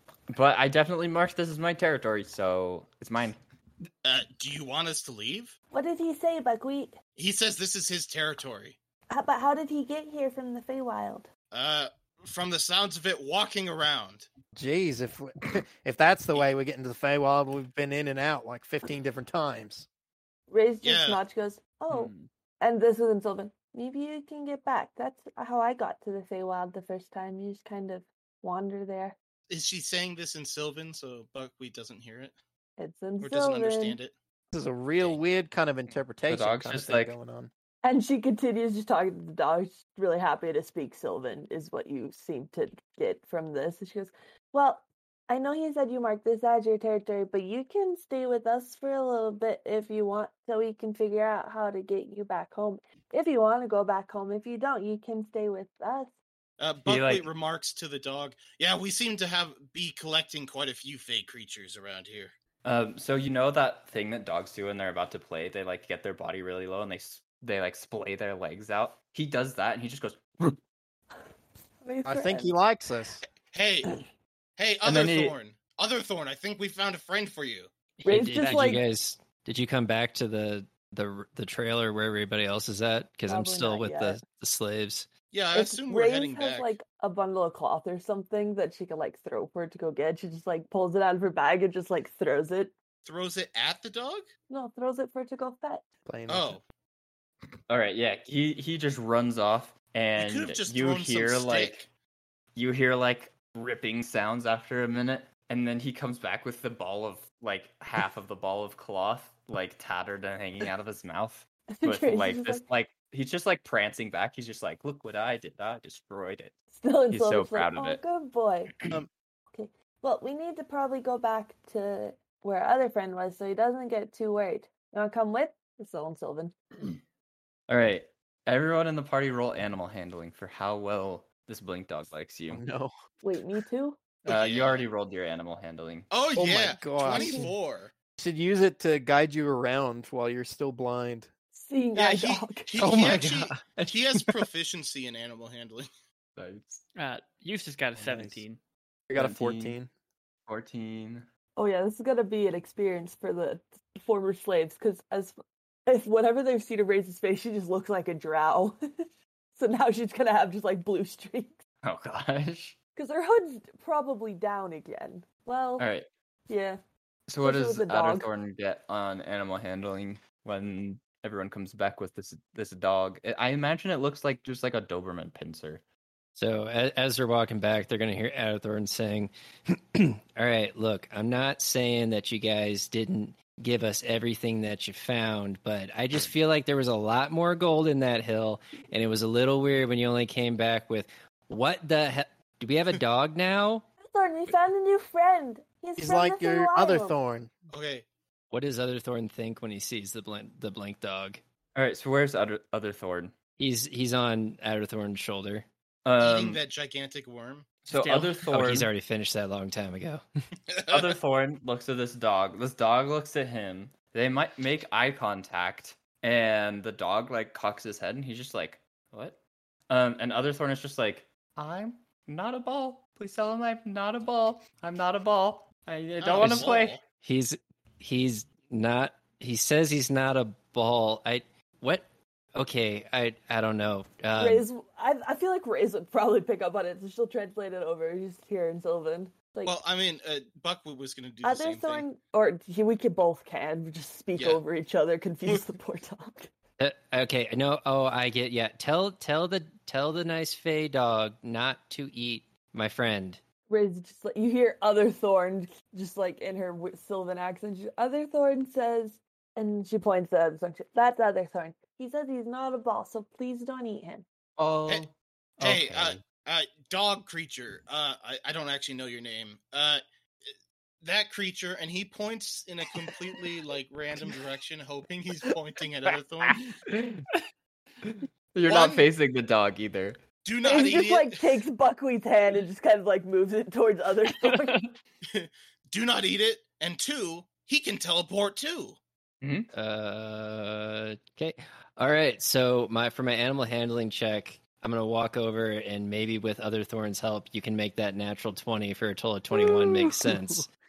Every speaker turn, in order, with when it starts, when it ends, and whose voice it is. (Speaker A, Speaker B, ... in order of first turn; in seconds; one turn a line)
Speaker A: 0.3-3.4
Speaker B: 4.0-5.5
Speaker C: 5.7-7.0
Speaker B: 7.2-8.8
Speaker C: 9.1-11.3
Speaker B: 11.5-14.3
Speaker D: 14.5-19.9
Speaker C: 20.5-29.1
Speaker B: 20.8-21.2
Speaker B: 29.5-32.4
Speaker C: 32.8-34.0
Speaker B: 33.2-34.1
Speaker D: 34.5-37.5
Speaker A: 36.2-37.1
Speaker C: 37.8-56.1
Speaker B: 56.6-62.3
Speaker A: 56.9-57.3
Speaker A: 62.6-70.6
Speaker C: 71.8-72.5
Speaker D: 72.0-73.2
Speaker B: 73.2-73.9
Speaker B: 74.6-77.7
Speaker A: 74.8-75.3
Speaker E: 78.0-85.1
Speaker C: 78.0-78.8
Speaker C: 83.3-84.2
Speaker B: 85.3-86.8
Speaker C: 85.5-92.7
Speaker B: 93.0-94.2
Speaker C: 94.5-95.8
Speaker D: 96.0-96.6
Speaker B: 96.3-96.6
Speaker A: 97.7-101.8
Speaker B: 100.2-101.9
Speaker A: 102.5-116.5
Speaker C: 111.7-112.6
Speaker C: 116.7-118.8
Speaker A: 117.1-118.0
Speaker C: 119.5-126.5
Speaker A: 127.7-132.6
Speaker D: 132.5-132.9
Speaker C: 133.2-134.0
Speaker B: 134.2-134.8
Speaker A: 134.3-136.1
Speaker B: 136.1-137.9
Speaker D: 136.3-137.5
Speaker D: 138.2-141.3
Speaker C: 141.5-142.9
Speaker B: 141.9-145.9
Speaker E: 142.8-144.4
Speaker A: 146.4-146.8
Speaker F: 146.9-148.6
Speaker D: 147.9-148.4
Speaker D: 149.1-149.9
Speaker A: 149.1-149.8
Speaker A: 150.4-151.3
Speaker C: 151.6-158.8
Speaker C: 159.5-161.6
Speaker A: 161.8-162.8
Speaker C: 162.9-165.9
Speaker A: 165.8-166.1
Speaker C: 166.5-166.8
Speaker A: 167.3-175.8
Speaker C: 167.4-168.3
Speaker E: 176.3-193.8
Speaker C: 194.0-197.2
Speaker D: 196.0-197.5
Speaker B: 197.7-198.1
Speaker E: 198.5-201.4
Speaker A: 201.7-203.3
Speaker E: 203.6-205.7
Speaker A: 206.0-206.6
Speaker B: 206.2-207.8
Speaker A: 207.9-208.9
Speaker F: 207.9-208.4
Speaker E: 208.5-210.2
Speaker B: 210.7-211.2
Speaker A: 210.9-227.0
Speaker B: 226.2-227.0
Speaker E: 226.4-226.7
Speaker E: 227.2-234.7
Speaker C: 234.4-239.8
Speaker B: 239.6-242.0
Speaker C: 241.4-246.5
Speaker E: 246.8-253.4
Speaker C: 253.7-264.2
Speaker A: 264.6-266.2
Speaker B: 265.6-276.6
Speaker A: 276.9-277.2
Speaker A: 278.5-280.2
Speaker B: 278.7-279.1
Speaker B: 280.4-281.4
Speaker C: 280.6-284.9
Speaker F: 284.5-284.8
Speaker B: 285.2-289.0
Speaker A: 289.4-289.7
Speaker E: 289.7-300.7